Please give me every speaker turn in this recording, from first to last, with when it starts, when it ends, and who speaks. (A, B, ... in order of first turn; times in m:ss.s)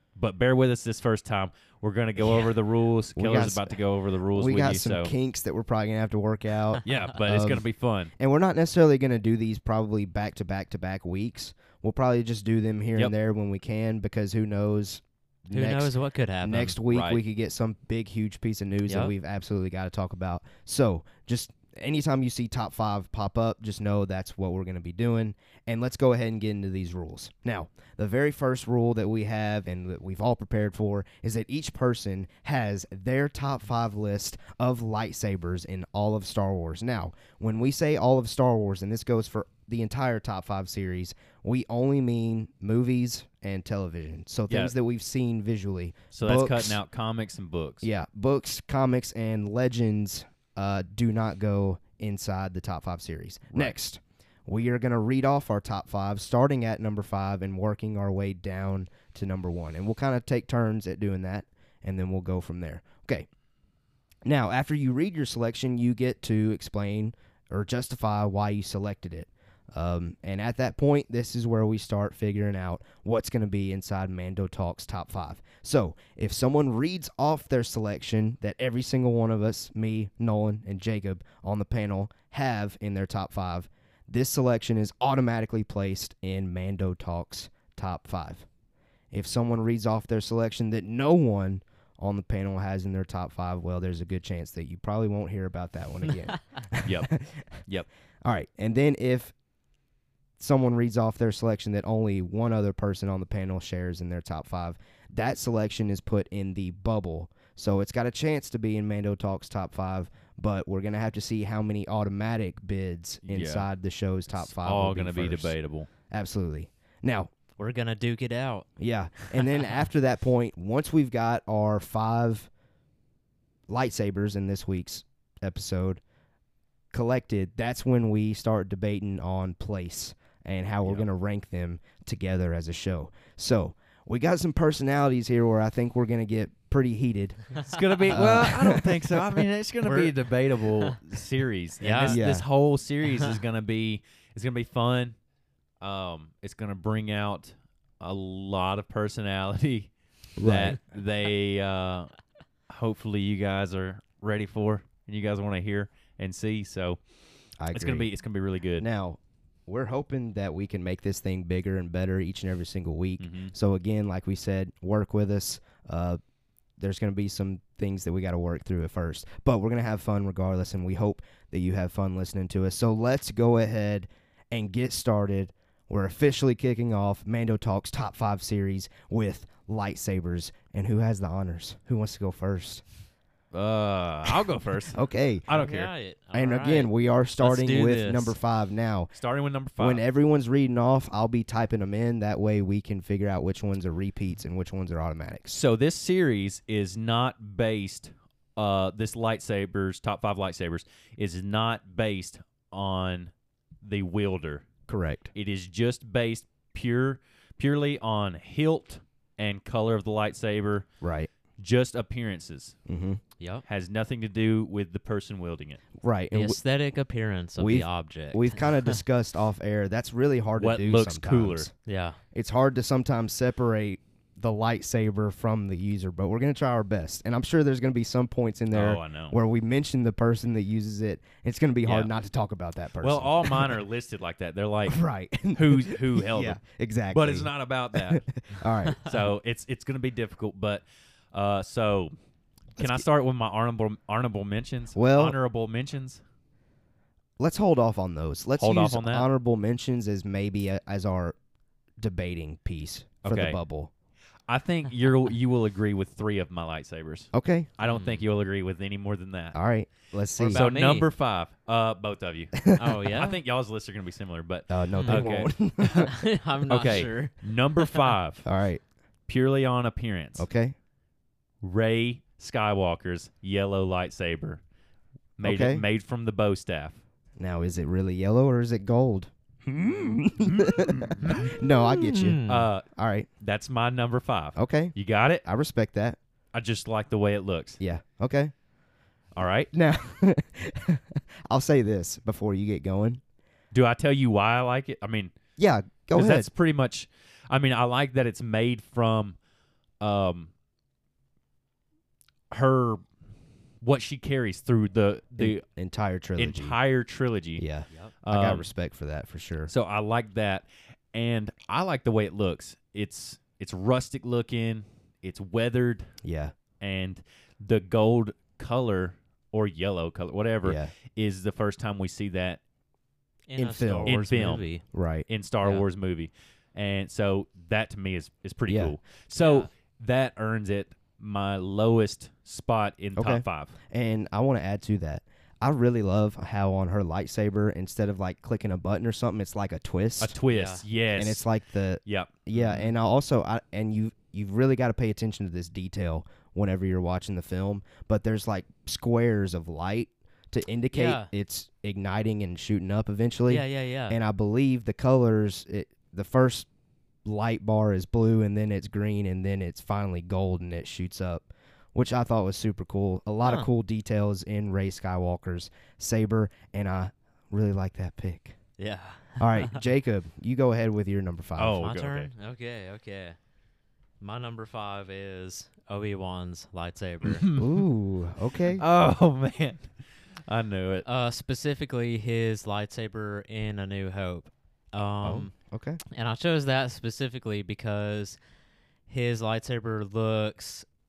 0:00.2-0:05.1 A
0:03.2-0:03.8 B
0:04.3-0:07.6 B
0:06.8-0:08.1 A
0:08.2-0:46.8 B
0:15.5-0:16.8 C
0:16.9-0:17.2 A
0:18.8-0:19.1 C
0:44.5-0:44.7 A
0:46.1-0:47.9 A
0:47.8-1:03.3 B
1:04.2-1:28.4 B
1:29.1-1:37.6 B
1:36.8-1:37.1 A
1:38.2-1:39.3 B
1:40.4-1:55.5 B
1:53.2-1:53.7 A
1:54.4-1:55.9 A
1:56.1-1:57.3 B
1:57.6-1:59.7 C
1:58.8-2:02.5 B
2:03.7-2:06.0 B
2:06.9-2:17.4 B
2:17.6-2:18.3 C
2:17.6-2:25.1 A
2:18.1-2:19.4 B
2:19.8-2:20.1 C
2:21.8-2:22.2 C
2:22.0-2:22.4 B
2:25.8-2:32.1 A
2:30.4-2:30.8 B
2:32.7-2:37.0 A
2:37.6-2:38.1 B
2:37.7-2:38.8 A
2:38.8-2:46.2 B
2:43.2-2:43.5 A
2:46.8-3:02.8 B
3:03.5-3:05.9 A
3:04.9-3:05.5 B
3:05.5-3:08.3 C
3:06.3-3:09.1 B
3:09.1-3:10.0 A
3:09.8-3:15.6 B
3:15.5-3:24.7 A
3:24.9-3:25.3 B
3:25.3-3:30.8 A
3:31.0-3:31.3 B
3:31.6-3:32.8 A
3:32.9-3:33.2 B
3:33.7-3:35.8 A
3:36.0-3:36.6 B
3:36.3-3:39.0 C
3:37.6-3:41.7 B
3:40.6-3:41.7 A
3:41.8-3:42.2 C
3:42.3-3:53.8 B
3:48.7-3:49.4 A
3:53.0-3:55.0 A
3:54.8-3:59.0 B
3:55.5-3:56.6 A
3:57.1-3:58.3 A
3:59.0-4:02.1 A
4:02.8-4:03.0 B
4:02.8-4:06.2 A
4:04.9-4:05.4 B
4:07.4-4:11.4 B
4:08.6-4:09.2 A
4:12.0-4:13.9 B
4:13.2-4:13.6 A
4:14.5-4:19.6 A
4:17.3-4:17.7 B
4:17.8-4:18.2 C
4:19.5-4:20.6 B
4:20.4-4:21.0 C
4:20.5-4:26.1 A
4:22.8-4:23.4 C
4:24.7-4:26.1 B
4:25.0-4:25.2 C
4:25.9-4:28.1 C
4:26.7-4:28.4 A
4:28.4-4:28.8 B
4:29.3-4:30.4 A
4:30.4-4:30.8 B
4:31.6-4:34.6 A
4:35.4-4:37.0 A
4:35.4-4:35.8 B
4:37.4-4:43.3 B
4:40.5-4:41.5 A
4:41.2-4:42.7 C
4:42.5-4:42.9 A
4:43.4-4:45.4 A
4:44.6-4:44.9 B
4:45.4-4:46.2 B
4:46.5-4:47.8 A
4:47.8-4:48.5 B
4:49.3-4:49.7 A
4:49.7-4:53.2 B
4:53.7-4:55.3 A
4:55.6-4:56.5 B
4:56.1-4:59.4 A
5:00.0-5:00.5 A
5:02.5-5:03.0 A
5:03.8-5:05.6 A
5:05.4-5:06.8 B
5:06.4-5:07.6 A
5:07.6-5:09.7 B
5:08.2-5:08.7 A
5:09.7-5:16.1 A
5:16.2-5:16.5 B
5:16.8-5:22.6 A
5:20.6-5:20.9 B
5:23.5-5:24.8 C
5:23.6-5:24.2 B
5:24.0-5:24.6 A
5:24.9-5:25.3 B
5:25.3-5:33.7 A
5:28.7-5:28.9 B
5:29.4-5:29.7 C
5:33.2-5:40.4 B
5:40.2-5:41.4 A
5:40.5-5:40.8 C
5:41.2-5:56.7 B
5:42.0-5:42.8 A
5:42.6-5:42.8 C
5:50.9-5:51.3 C
5:53.5-5:54.2 C
5:57.2-6:08.6 B
6:08.8-6:09.8 C
6:09.4-6:11.8 B
6:11.6-6:12.3 A
6:11.8-6:13.4 C
6:14.2-6:17.4 C
6:17.2-6:17.8 A
6:17.6-6:18.8 B
6:18.7-6:19.9 A
6:20.5-6:21.0 A
6:21.0-6:25.5 C
6:25.2-6:26.0 B
6:26.1-6:28.4 C
6:29.1-6:30.8 C